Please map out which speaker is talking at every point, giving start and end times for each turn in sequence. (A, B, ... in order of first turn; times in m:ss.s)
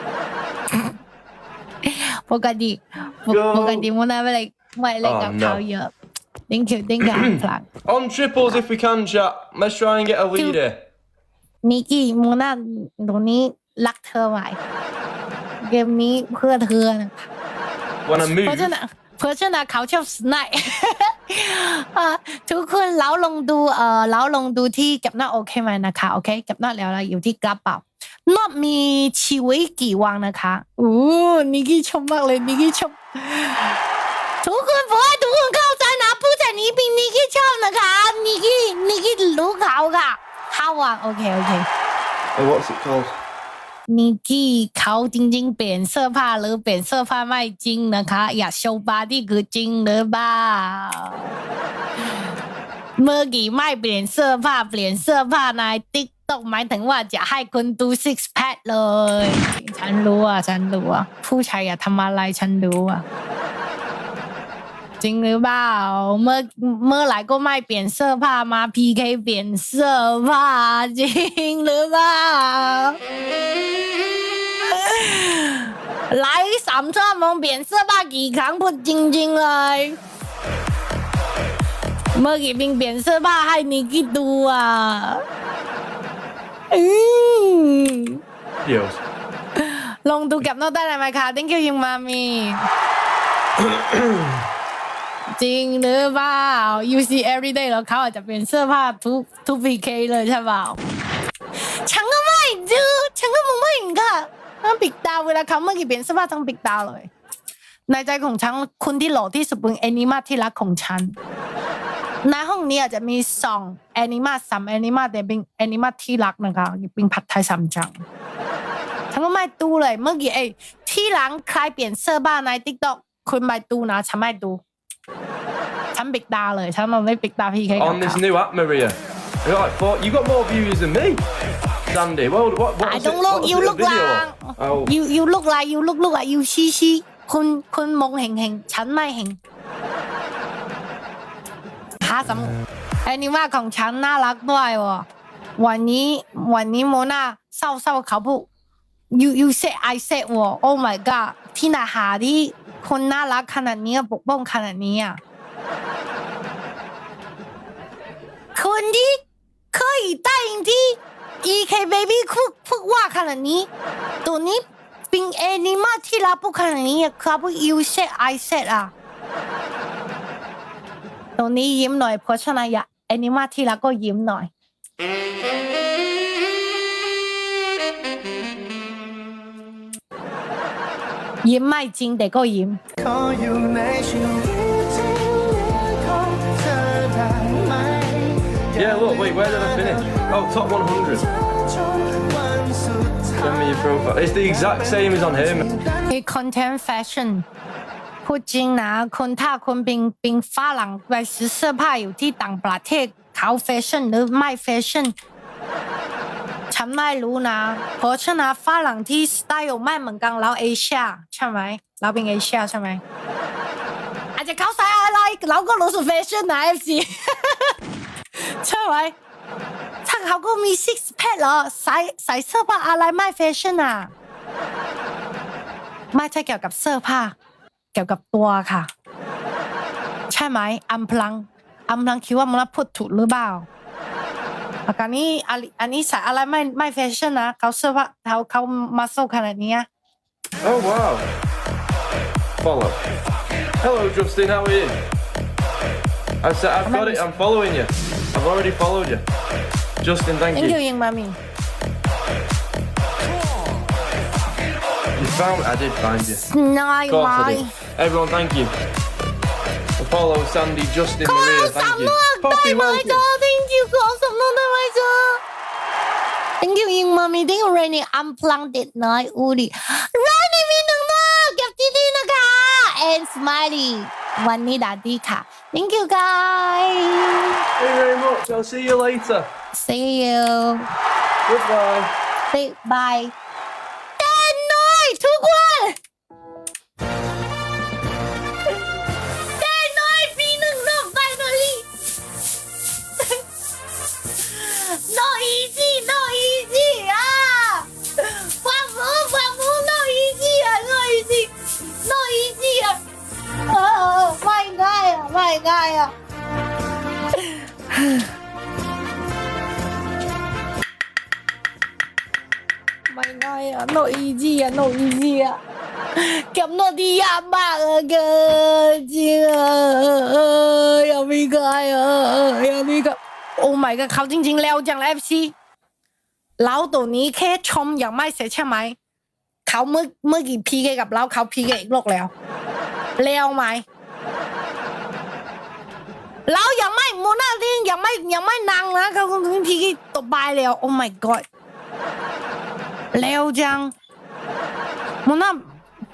0:01.8-0:05.9 A
0:03.3-0:03.9 B
0:05.0-0:05.6 B
0:06.5-0:07.7 A
0:07.0-0:10.8 B
0:11.6-0:14.6 A
0:15.6-0:17.3 A
0:18.0-0:18.7 B
0:18.2-0:33.8 A
0:34.4-0:41.7 A
0:42.4-0:43.1 B
0:43.9-0:51.3 A
0:53.0-1:03.0 A
1:05.0-1:13.0 A
1:14.4-1:20.0 A
1:22.2-1:25.2 A
1:26.7-1:28.2 A
1:28.6-1:29.0 B
1:29.6-1:32.7 A
1:33.6-1:34.4 B
1:35.4-1:40.8 A
1:41.8-1:47.1 A
1:47.9-1:51.2 A
1:52.2-1:58.0 A
1:59.1-2:04.6 A
2:06.0-2:08.2 A
2:07.8-2:11.2 B
2:11.9-2:14.9 B
2:12.8-2:19.4 A
2:22.0-2:25.1 A
2:25.6-2:28.5 A
2:29.1-2:35.2 A
2:38.6-2:43.7 A
2:44.2-2:48.9 A
2:51.4-2:54.5 A
3:01.4-3:02.8 A
3:03.0-3:08.6 C
3:08.7-3:11.3 B
3:11.7-3:13.2 C
3:13.3-3:15.8 B
3:16.0-3:17.5 A
3:18.2-3:25.1 A
3:26.7-3:33.0 A
3:34.4-3:37.8 A
3:38.4-3:39.1 A
3:40.0-3:44.1 A
3:46.1-3:47.4 A
3:47.9-3:48.9 A
3:50.3-3:53.7 A
3:54.9-3:59.9 A
4:00.6-4:01.3 B
4:02.6-4:03.0 B
4:03.8-4:05.0 B
4:06.4-4:09.2 B
4:06.8-4:07.2 A
4:10.0-4:10.8 B
4:10.5-4:11.4 A
4:15.2-4:16.5 B
4:16.4-4:17.7 A
4:17.1-4:18.7 B
4:20.0-4:23.2 B
4:21.2-4:25.4 A
4:26.6-4:37.6 A
4:37.8-4:39.5 B
4:39.7-4:40.9 A
4:41.5-4:42.1 B
4:42.5-4:43.3 A
4:44.2-4:46.0 A
4:49.6-4:51.9 A
4:54.4-5:03.0 A
5:03.7-5:06.1 A
5:07.3-5:08.3 A
5:13.1-5:15.6 A
5:16.2-5:25.5 A
5:26.6-5:29.0 A
5:29.7-5:32.3 A
5:33.2-5:33.8 A
5:36.5-5:41.4 A
5:43.1-5:43.9 A
5:45.2-5:45.6 A